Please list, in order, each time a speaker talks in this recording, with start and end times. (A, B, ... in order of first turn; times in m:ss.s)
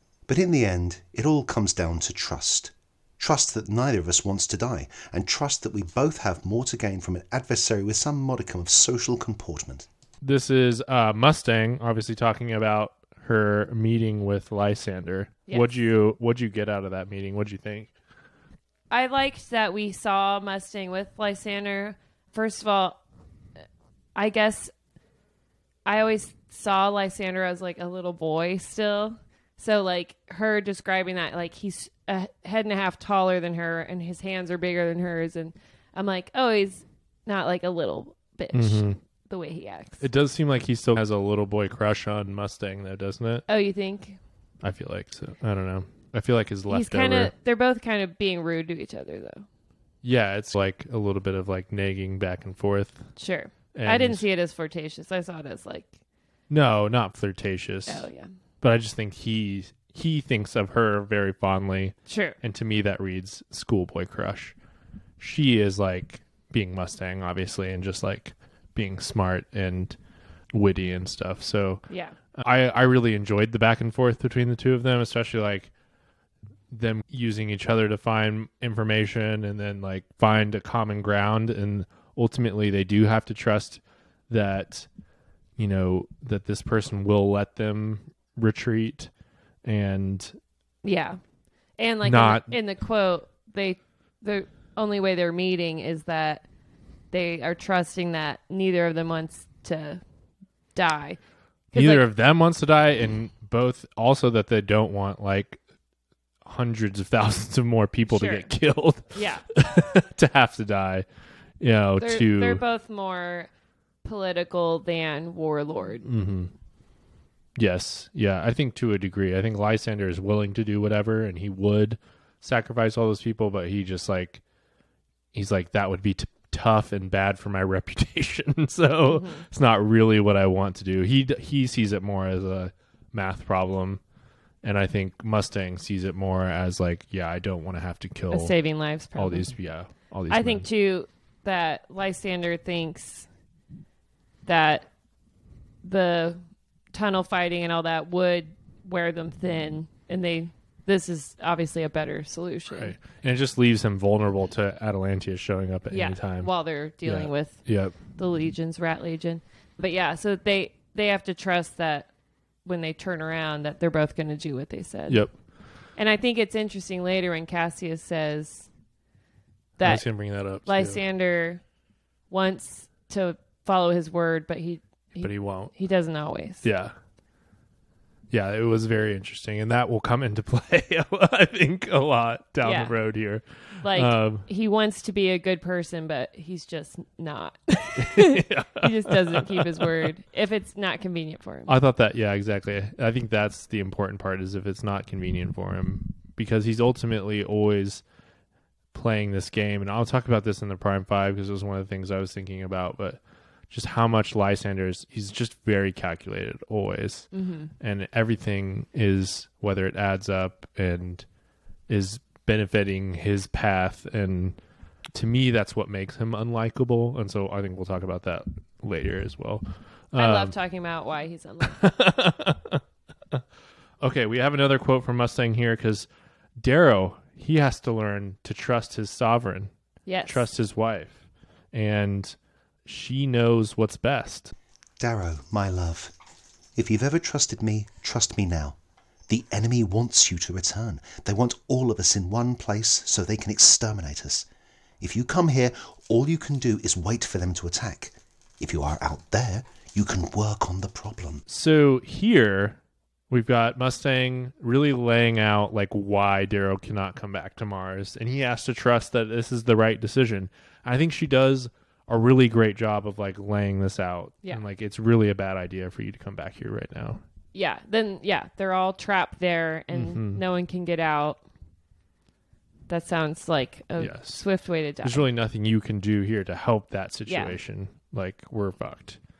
0:00.3-0:09.9 A
0:10.2-0:17.9 B
0:15.5-0:15.7 C
0:18.9-0:23.0 C
0:24.2-0:24.7 C
0:25.8-0:40.0 C
0:38.5-0:39.0 B
0:40.0-0:43.4 B
0:43.5-0:44.2 C
0:44.6-0:47.3 B
0:46.7-0:49.4 C
0:50.0-0:53.0 B
0:53.2-0:55.9 C
0:53.7-0:54.2 B
0:56.5-0:58.0 B
0:57.9-0:58.3 C
0:58.6-1:04.5 B
1:02.1-1:02.4 C
1:05.2-1:10.0 B
1:10.5-1:11.8 B
1:11.9-1:12.1 C
1:12.4-1:15.7 B
1:16.7-1:24.9 B
1:25.6-1:29.1 B
1:29.6-1:30.4 B
1:30.8-1:31.2 C
1:31.8-1:36.4 C
1:32.0-1:32.5 B
1:37.1-1:40.0 C
1:40.7-1:41.2 C
1:41.7-1:42.1 C
1:41.7-1:45.6 B
1:46.4-1:51.0 B
1:48.1-1:48.5 C
1:49.1-1:49.5 C
1:51.6-1:52.6 B
1:52.0-1:53.5 C
1:54.0-1:56.0 C
1:56.0-1:56.5 B
1:57.6-2:04.4 B
2:05.3-2:14.0 B
2:09.0-2:09.4 C
2:14.6-2:18.5 B
2:18.3-2:19.5 C
2:19.2-2:20.6 B
2:20.3-2:23.3 C
2:24.4-2:24.9 C
2:25.8-2:26.4 C
2:26.9-2:32.9 C
2:32.7-2:36.5 B
2:35.9-2:42.1 C
2:37.0-2:38.0 B
2:42.6-2:45.2 C
2:46.0-2:48.7 C
2:49.8-2:50.1 C
2:49.8-2:51.0 B
2:50.6-2:51.6 C
2:52.3-2:56.6 C
2:55.2-2:55.7 B
2:56.6-2:56.9 B
2:58.3-3:04.4 B
3:02.6-3:02.9 C
3:03.8-3:11.7 C
3:08.0-3:10.0 B
3:11.7-3:18.0 B
3:18.9-3:27.3 B
3:27.3-3:27.7 C
3:27.8-3:31.2 B
3:31.9-3:34.6 B
3:35.1-3:40.5 B
3:40.2-3:41.8 C
3:41.6-3:42.8 B
3:44.0-3:46.1 B
3:46.6-3:49.7 B
3:50.0-3:50.4 C
3:50.2-3:51.2 B
3:51.7-3:54.5 B
3:55.0-3:56.1 A
3:56.8-3:58.8 A
3:59.3-4:04.4 A
4:05.0-4:11.4 A
4:11.5-4:12.8 B
4:13.3-4:27.2 B
4:27.5-4:31.4 C
4:29.9-4:30.4 B
4:32.9-4:35.2 C
4:34.0-4:34.4 B
4:35.0-4:39.2 B
4:37.3-4:37.5 C